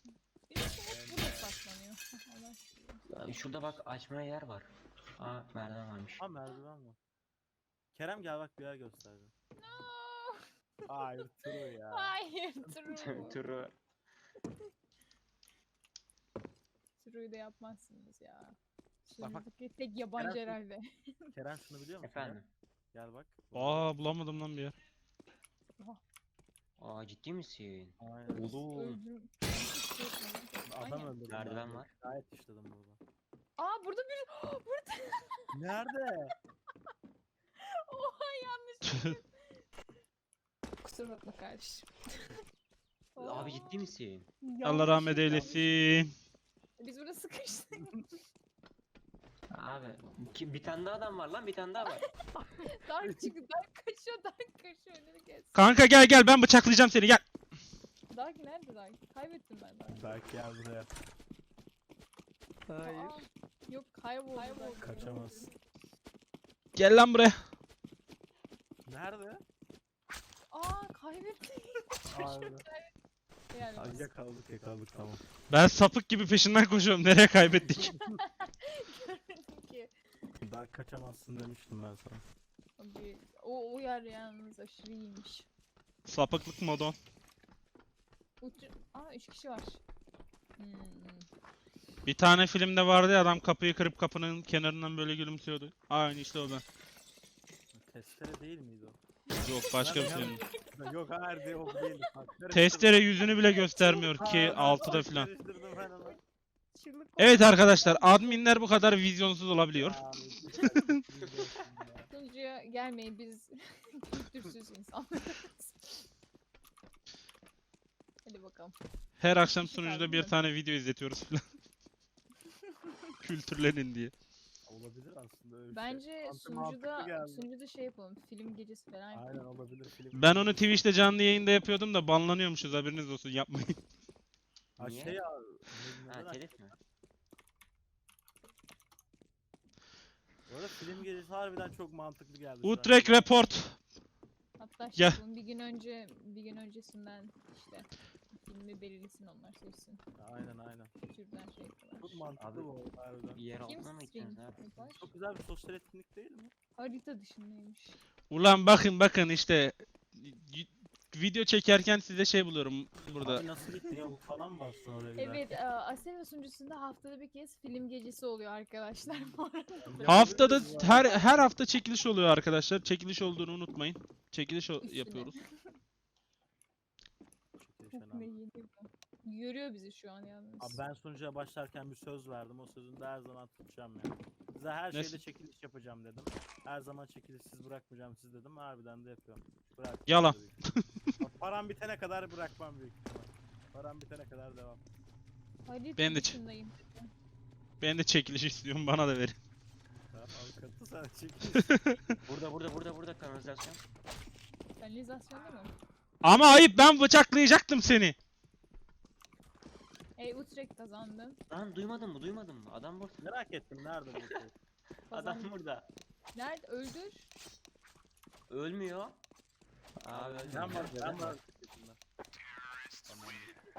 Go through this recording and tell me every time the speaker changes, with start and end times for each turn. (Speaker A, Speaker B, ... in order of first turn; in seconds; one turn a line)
Speaker A: 0.5-3.3
Speaker B: 0.9-1.5
Speaker C: 3.1-6.2
Speaker B: 6.2-7.0
Speaker B: 7.9-9.3
Speaker A: 9.6-10.5
Speaker B: 10.9-12.8
Speaker A: 11.9-13.4
Speaker C: 12.9-13.8
Speaker A: 17.0-21.3
Speaker B: 19.2-19.5
Speaker B: 20.2-20.6
Speaker B: 21.3-22.4
Speaker C: 22.0-22.5
Speaker B: 22.9-23.9
Speaker D: 23.5-24.7
Speaker C: 26.8-29.0
Speaker B: 28.0-28.5
Speaker A: 28.3-31.2
Speaker B: 30.6-33.0
Speaker C: 31.3-31.9
Speaker A: 33.6-35.5
Speaker B: 35.5-36.3
Speaker A: 37.6-39.2
Speaker A: 40.8-42.3
Speaker A: 43.1-43.9
Speaker C: 43.2-44.3
Speaker A: 44.4-46.0
Speaker D: 44.6-46.1
Speaker B: 45.2-45.8
Speaker A: 46.8-48.1
Speaker C: 49.5-52.0
Speaker A: 51.8-55.8
Speaker B: 53.0-53.3
Speaker D: 55.5-57.2
Speaker A: 58.1-60.2
Speaker B: 59.9-60.9
Speaker B: 62.7-63.2
Speaker A: 62.8-65.5
Speaker B: 64.6-65.5
Speaker D: 66.8-67.4
Speaker B: 68.8-69.4
Speaker A: 70.5-72.9
Speaker B: 72.1-72.7
Speaker A: 73.5-74.1
Speaker B: 73.6-75.2
Speaker D: 75.5-78.0
Speaker A: 77.8-79.9
Speaker B: 80.4-82.2
Speaker A: 82.8-85.5
Speaker D: 86.0-87.0
Speaker A: 88.4-89.8
Speaker A: 90.6-91.3
Speaker D: 92.0-96.6
Speaker B: 97.7-99.0
Speaker D: 99.4-100.4
Speaker B: 99.8-103.5
Speaker A: 100.0-100.6
Speaker A: 101.6-102.1
Speaker D: 102.5-105.3
Speaker A: 103.4-106.2
Speaker B: 104.1-106.2
Speaker A: 106.7-108.5
Speaker D: 107.2-110.0
Speaker B: 109.7-112.1
Speaker D: 110.6-110.9
Speaker A: 112.1-116.1
Speaker A: 118.2-118.8
Speaker D: 119.2-121.4
Speaker A: 119.4-120.3
Speaker D: 123.2-124.1
Speaker B: 124.7-127.5
Speaker A: 125.7-129.4
Speaker B: 129.1-130.8
Speaker D: 130.1-133.8
Speaker B: 134.8-136.6
Speaker C: 134.8-135.2
Speaker C: 136.1-136.8
Speaker B: 140.5-143.4
Speaker D: 142.6-143.8
Speaker A: 144.6-150.0
Speaker B: 150.2-150.9
Speaker A: 151.0-152.2
Speaker B: 152.0-153.4
Speaker C: 152.4-152.7
Speaker C: 153.3-155.0
Speaker A: 153.6-155.1
Speaker B: 155.0-156.5
Speaker A: 156.8-158.0
Speaker D: 158.3-163.4
Speaker B: 163.2-165.4
Speaker A: 165.2-171.2
Speaker B: 169.8-171.3
Speaker D: 170.1-175.3
Speaker A: 174.8-175.7
Speaker B: 177.6-178.3
Speaker A: 177.9-180.8
Speaker B: 180.6-190.6
Speaker D: 184.9-185.2
Speaker D: 190.1-191.0
Speaker B: 191.2-194.8
Speaker A: 195.7-197.1
Speaker D: 196.0-196.4
Speaker D: 197.8-199.4
Speaker B: 200.1-202.2
Speaker C: 202.2-203.8
Speaker A: 204.8-205.7
Speaker D: 206.2-208.2
Speaker A: 210.2-211.4
Speaker C: 211.5-213.2
Speaker B: 213.2-214.5
Speaker C: 215.1-215.9
Speaker A: 215.1-215.5
Speaker A: 216.3-217.3
Speaker C: 218.5-219.2
Speaker C: 220.0-221.3
Speaker B: 220.1-222.0
Speaker B: 223.1-223.5